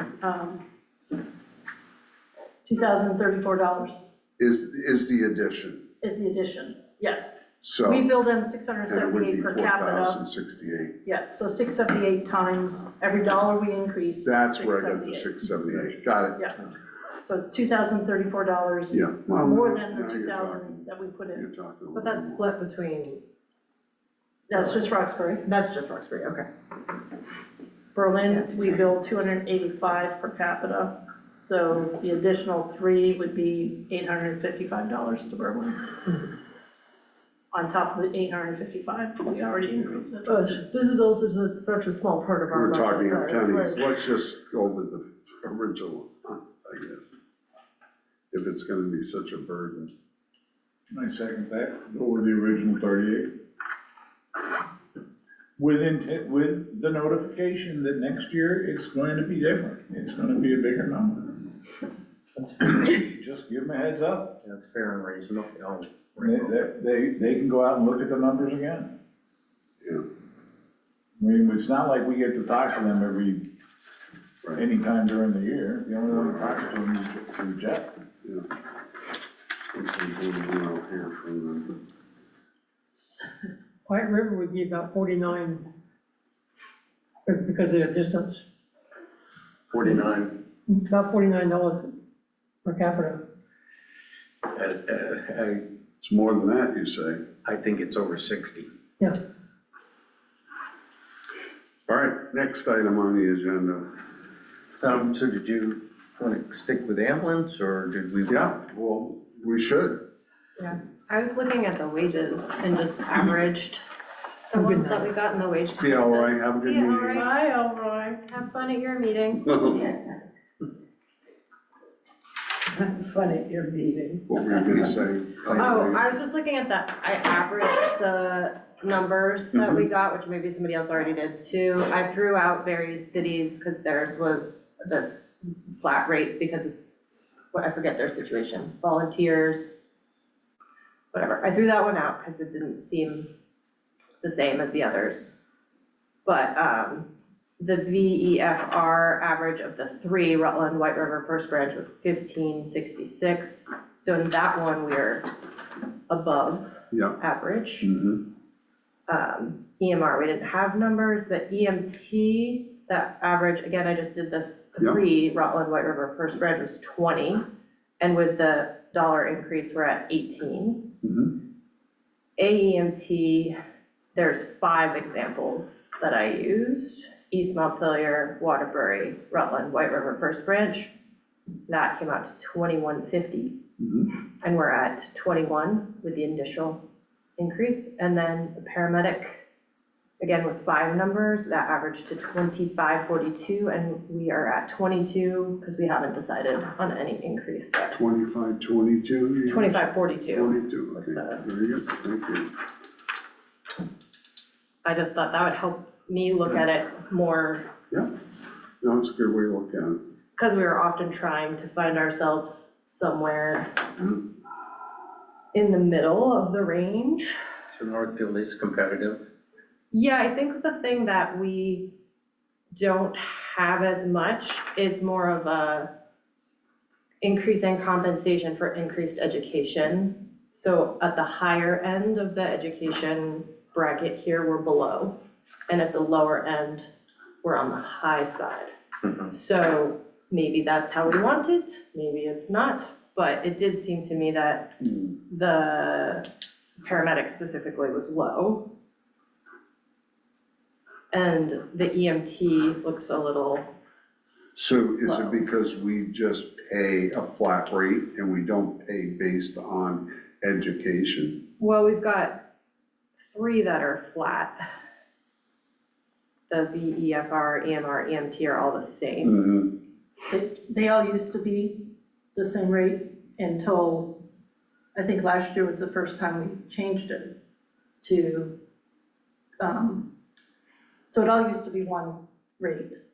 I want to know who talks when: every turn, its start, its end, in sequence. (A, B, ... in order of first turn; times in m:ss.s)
0:00.2-0:00.6 A
0:02.6-0:04.0 A
0:04.4-0:05.8 B
0:06.0-0:10.2 A
0:07.6-0:08.1 B
0:08.9-0:11.0 B
0:11.0-0:15.3 A
0:14.2-0:16.4 B
0:17.3-0:21.4 A
0:18.9-0:22.4 B
0:21.9-0:23.2 C
0:24.5-0:25.4 A
0:25.4-0:26.5 C
0:27.9-0:36.0 A
0:37.5-0:40.4 A
0:40.4-0:43.7 D
0:40.8-0:42.5 C
0:42.5-0:47.1 B
0:48.3-0:49.9 B
0:50.9-0:53.3 E
0:55.6-1:01.4 E
1:02.6-1:04.4 E
1:04.4-1:06.6 F
1:06.2-1:08.9 E
1:11.2-1:13.5 E
1:14.5-1:17.9 E
1:16.1-1:16.5 B
1:19.7-1:21.8 B
1:23.9-1:25.6 G
1:27.2-1:28.4 G
1:29.7-1:30.3 F
1:30.7-1:31.9 G
1:32.6-1:33.2 G
1:34.4-1:35.6 F
1:36.0-1:37.2 B
1:37.4-1:38.7 F
1:41.9-1:43.9 B
1:44.8-1:48.5 F
1:48.3-1:50.0 B
1:50.6-1:53.8 C
1:54.5-1:59.5 C
1:54.5-1:55.1 G
1:55.7-1:57.3 B
1:59.5-1:59.8 B
2:02.8-2:04.2 D
2:04.3-2:06.0 B
2:05.5-2:19.9 C
2:09.5-2:09.8 B
2:21.1-2:23.3 C
2:24.2-2:25.4 C
2:26.2-2:35.3 C
2:36.1-2:37.9 C
2:36.9-2:37.2 B
2:37.8-2:38.2 B
2:39.1-2:47.4 C
2:48.0-2:50.9 C
2:51.0-2:51.3 B
2:52.4-2:53.5 C
2:54.1-3:00.9 C
3:01.7-3:03.6 C
3:04.4-3:06.8 C
3:07.4-3:09.4 C
3:10.2-3:18.0 C
3:17.9-3:22.5 B
3:19.4-3:21.4 C
3:24.8-3:27.7 C
3:28.8-3:30.0 B
3:30.4-3:33.8 C
3:35.5-3:37.4 C
3:37.7-3:39.2 F
3:39.9-3:41.9 C
3:42.7-3:45.9 C
3:47.2-3:55.2 C
3:55.7-3:56.9 C
3:57.4-3:58.7 C
3:59.3-4:06.3 C
4:06.8-4:08.7 C
4:11.1-4:13.7 C
4:14.5-4:21.4 B
4:21.6-4:22.4 C
4:23.2-4:24.5 C
4:26.5-4:29.4 C
4:29.2-4:29.7 B
4:30.3-4:34.2 A
4:34.9-4:37.4 A
4:38.0-4:38.6 A
4:39.6-4:40.1 A
4:41.1-4:43.0 A